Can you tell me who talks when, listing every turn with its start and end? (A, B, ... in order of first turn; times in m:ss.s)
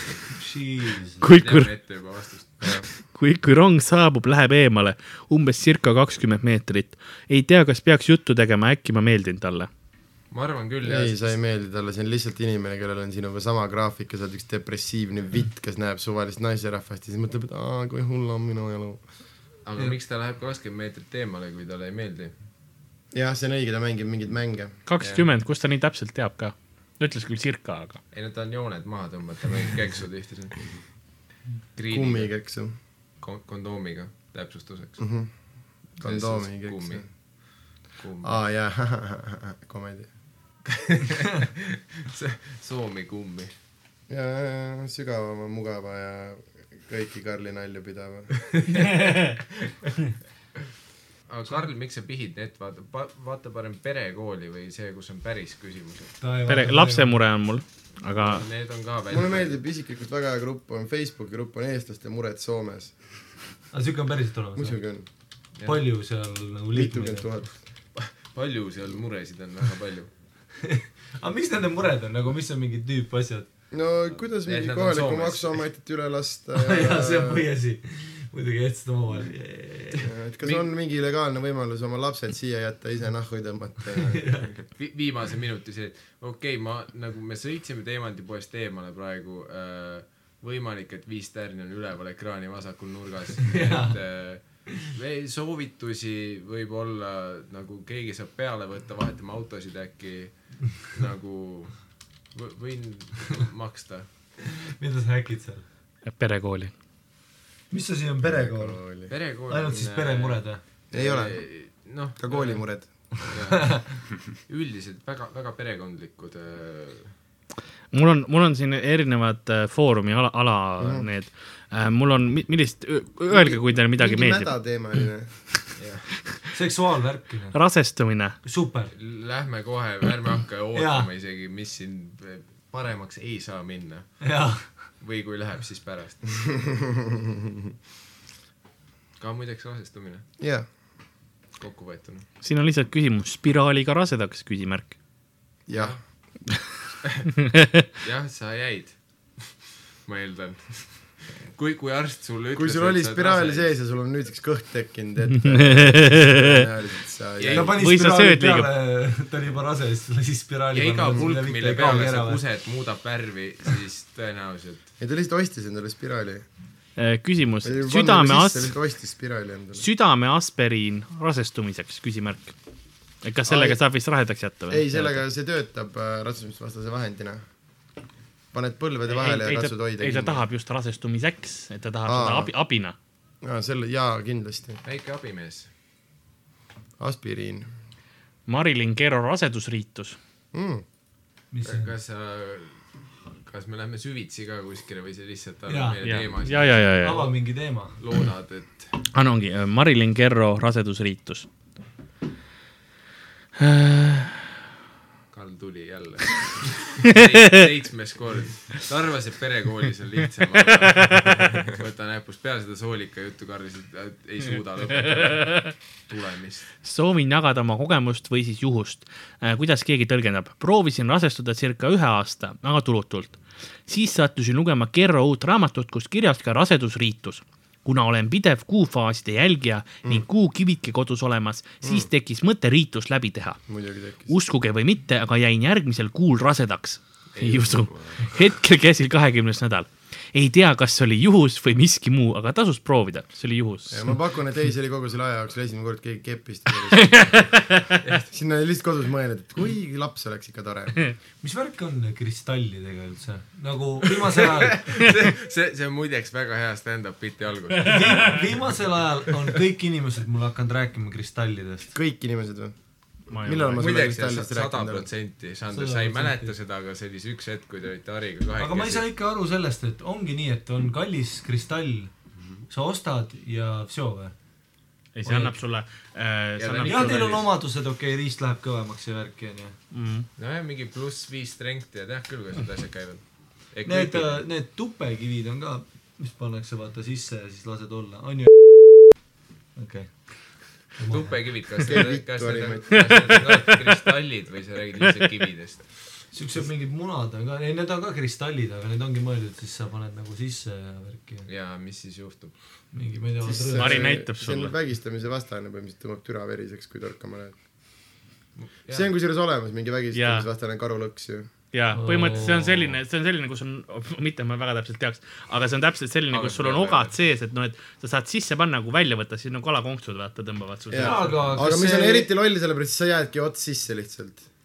0:00.3-0:01.2 A
0:01.2-0:01.7 B
0:01.3-0:02.7 C
0:02.9-0:09.7 B
0:10.3-0:11.4 C
0:10.8-0:19.0 D
0:19.6-0:22.3 C
0:23.1-0:24.8 D
0:24.9-0:28.0 B
0:25.0-0:25.2 C
0:28.1-0:30.8 C
0:31.8-0:32.3 C
0:31.9-0:32.7 D
0:33.2-0:35.0 C
0:35.0-0:35.3 D
0:36.0-0:37.0 D
0:36.0-0:37.1 C
0:38.0-0:38.4 C
0:38.2-0:40.1 D
0:40.7-0:43.5 C
0:44.1-0:48.4 D
0:48.5-0:49.4 C
0:48.7-0:49.4 B
0:51.3-0:56.1 C
0:56.2-0:57.2 A
0:56.5-0:58.4 B
0:58.2-0:59.6 C
0:59.1-1:02.9 D
1:03.7-1:04.8 A
1:04.6-1:05.0 D
1:05.6-1:05.9 C
1:05.6-1:07.3 A
1:06.7-1:07.6 D
1:07.9-1:10.1 C
1:10.6-1:13.5 A
1:13.7-1:17.4 D
1:14.4-1:15.6 C
1:16.5-1:20.1 A
1:20.0-1:24.4 D
1:20.4-1:20.7 C
1:24.0-1:24.5 A
1:24.6-1:41.8 C
1:33.5-1:34.5 A
1:42.3-1:44.0 C
1:44.4-1:45.6 A
1:46.0-1:46.7 B
1:47.7-1:48.8 A
1:48.2-1:49.1 D
1:49.1-1:52.6 C
1:49.5-1:50.6 A
1:50.9-1:51.4 D
1:52.2-1:52.9 D
1:53.2-1:53.9 C
1:53.2-1:54.0 A
1:54.5-1:57.1 C
1:57.9-2:04.5 B
2:00.8-2:01.1 D
2:03.3-2:05.4 D
2:05.8-2:06.1 C
2:06.5-2:07.6 A
2:07.5-2:08.4 B
2:08.4-2:08.9 A
2:08.9-2:16.4 C
2:10.7-2:11.1 A
2:14.2-2:14.8 A
2:19.2-2:20.2 C
2:20.4-2:20.7 D
2:21.6-2:22.3 C
2:22.4-2:25.0 B
2:25.7-2:26.0 D
2:25.7-2:26.0 C
2:27.0-2:27.3 C
2:27.4-2:27.8 B
2:28.0-2:29.5 C
2:30.0-2:33.7 C
2:32.5-2:37.7 D
2:35.4-2:36.7 B
2:37.4-2:37.7 C
2:37.5-2:42.4 A
2:37.7-2:38.7 B
2:40.7-2:44.8 C
2:45.0-2:46.4 D
2:47.0-2:48.7 B
2:47.6-2:49.8 D
2:49.8-2:52.5 B
2:53.2-2:55.2 B
2:53.5-2:53.8 D
2:54.7-2:57.4 D
2:58.5-3:00.4 D
2:59.1-3:02.9 B
3:02.0-3:02.5 D
3:03.4-3:04.8 D
3:04.8-3:05.7 C
3:07.0-3:07.7 D
3:08.5-3:10.2 B
3:10.5-3:10.8 D
3:11.5-3:11.9 A
3:11.6-3:17.3 C
3:15.7-3:16.0 A
3:16.0-3:17.2 B
3:17.0-3:18.0 A
3:17.9-3:19.0 C
3:19.1-3:21.5 B
3:23.6-3:24.5 B
3:25.3-3:36.7 C
3:27.0-3:27.6 B
3:30.8-3:31.5 B
3:35.2-3:35.7 B
3:36.8-3:53.6 B
3:51.8-3:52.1 D
3:53.7-3:54.3 D
3:54.3-4:04.1 B
3:57.3-3:58.1 C
4:03.9-4:07.4 D
4:06.9-4:08.0 B
4:08.3-4:11.0 D
4:11.4-4:14.8 A
4:14.4-4:18.5 C
4:17.8-4:22.0 A
4:17.9-4:18.4 B
4:21.9-4:22.7 D
4:23.3-4:23.9 B
4:23.4-4:25.1 D
4:23.8-4:29.0 C
4:25.7-4:26.5 A
4:28.6-4:32.1 A
4:32.7-4:34.3 A
4:35.1-4:37.4 B
4:35.2-4:35.6 A
4:36.6-4:37.5 C
4:36.8-4:39.8 A
4:39.9-4:40.3 B
4:40.4-4:44.4 C
4:43.8-4:48.6 A
4:49.7-4:51.4 A
4:51.1-4:55.9 C
4:51.8-4:53.4 D
4:56.3-5:01.5 A
5:01.5-5:02.5 C
5:02.9-5:04.2 A
5:03.4-5:07.5 D
5:03.8-5:04.7 B
5:08.6-5:09.1 C
5:08.9-5:11.5 D
5:10.1-5:10.4 B
5:11.7-5:21.6 B
5:11.9-5:12.9 A
5:16.3-5:17.1 C
5:20.9-5:24.4 D
5:20.9-5:22.3 A